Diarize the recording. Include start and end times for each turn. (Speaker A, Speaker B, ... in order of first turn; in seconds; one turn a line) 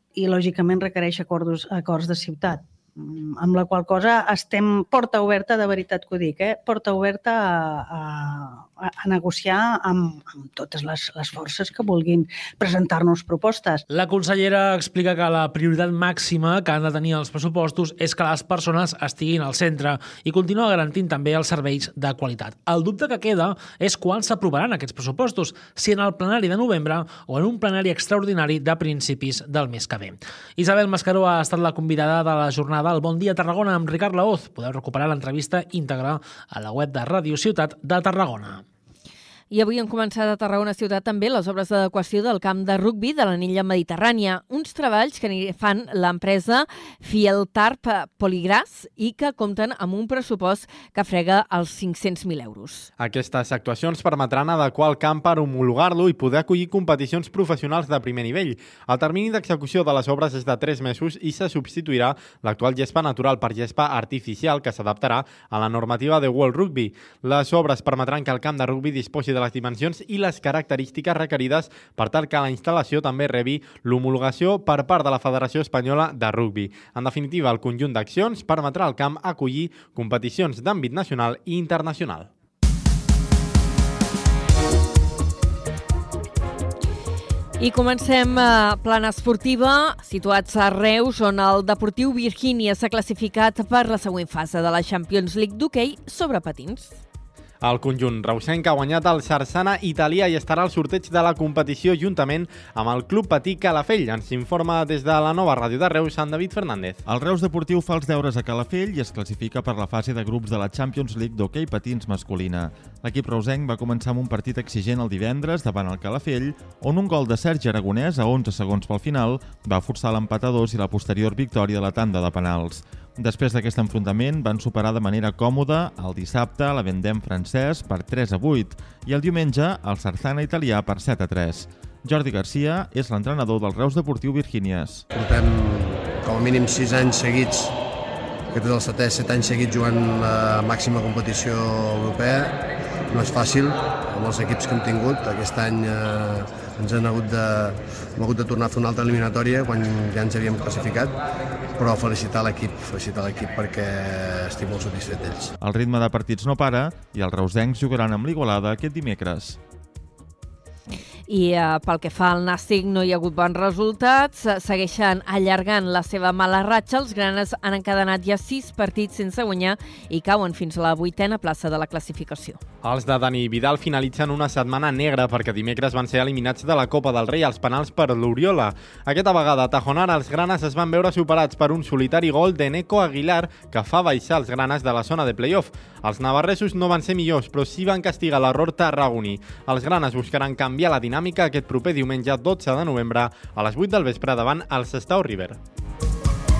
Speaker A: 0.1-13.8
Speaker B: 13.9-38.6
Speaker C: 39.5-52.9
Speaker D: 53.0-82.3
Speaker C: 87.6-97.0
Speaker D: 97.6-107.0
Speaker E: 107.1-135.0
Speaker F: 135.1-137.8
Speaker F: 138.5-151.2
Speaker F: 151.8-155.6
Speaker E: 155.6-159.6
Speaker C: 161.3-172.6
Speaker D: 172.8-195.6